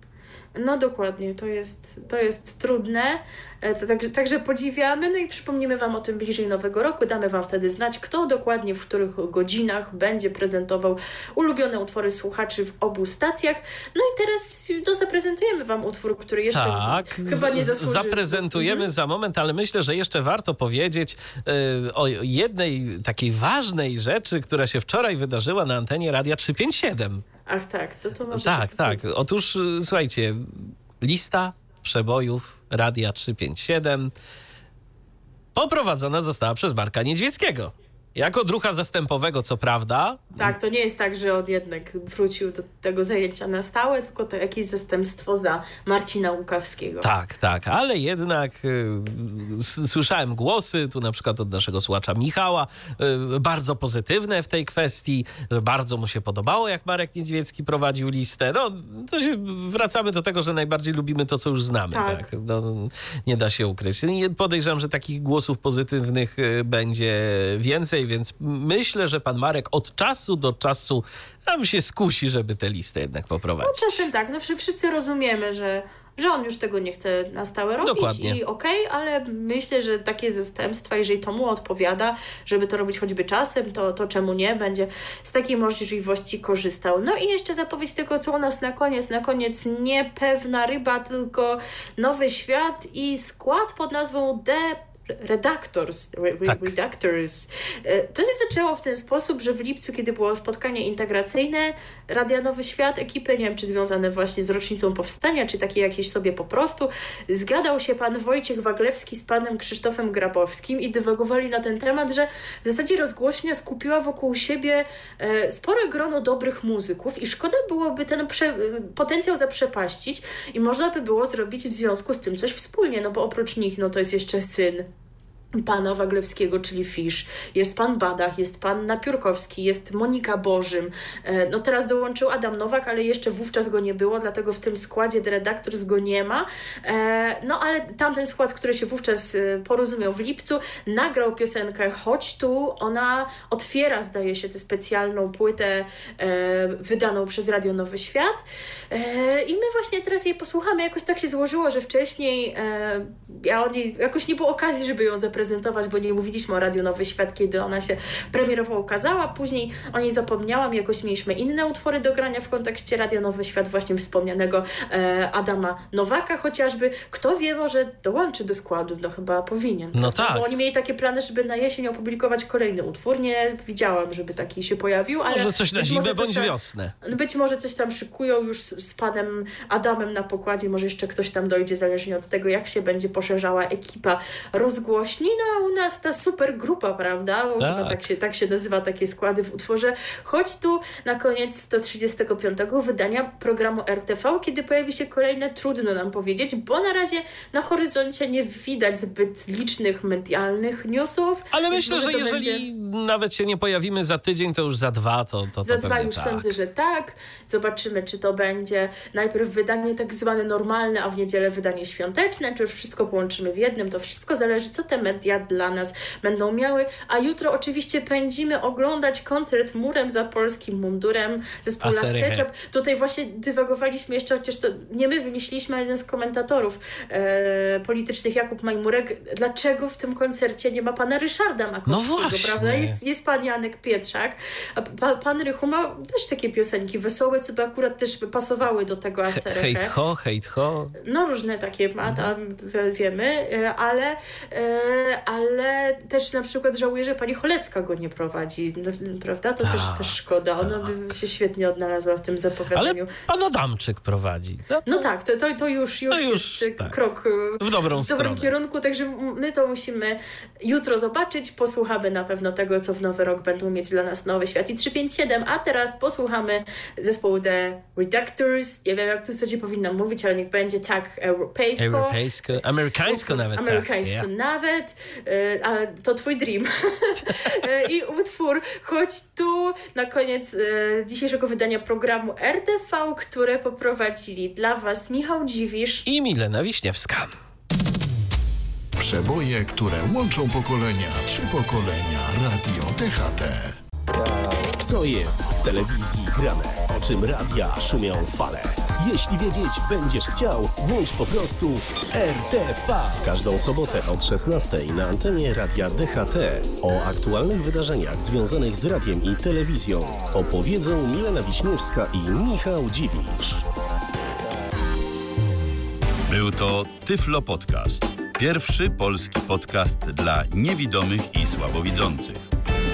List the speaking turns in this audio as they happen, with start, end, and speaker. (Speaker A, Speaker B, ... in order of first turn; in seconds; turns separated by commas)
Speaker A: 0.6-18.9, Speaker B: 16.5-27.2, Speaker A: 27.5-29.2, Speaker B: 28.3-34.1, Speaker B: 35.5-40.5, Speaker A: 40.4-47.1, Speaker B: 47.0-74.0, Speaker A: 61.9-62.3, Speaker A: 73.6-124.9, Speaker B: 77.8-78.4, Speaker B: 96.5-96.7, Speaker A: 125.6-202.6, Speaker B: 169.9-170.5, Speaker B: 175.3-176.9, Speaker B: 187.6-188.0, Speaker B: 201.5-206.5, Speaker A: 205.7-239.9, Speaker B: 221.8-222.5, Speaker B: 231.9-233.0, Speaker B: 239.4-240.9, Speaker A: 241.0-253.1, Speaker B: 249.6-250.9, Speaker B: 252.8-254.9, Speaker A: 254.9-272.2, Speaker B: 256.1-256.9, Speaker B: 257.6-258.5, Speaker B: 271.8-274.3, Speaker A: 273.1-286.1, Speaker B: 286.1-287.3, Speaker C: 289.0-293.8, Speaker D: 294.1-313.6, Speaker E: 316.3-322.4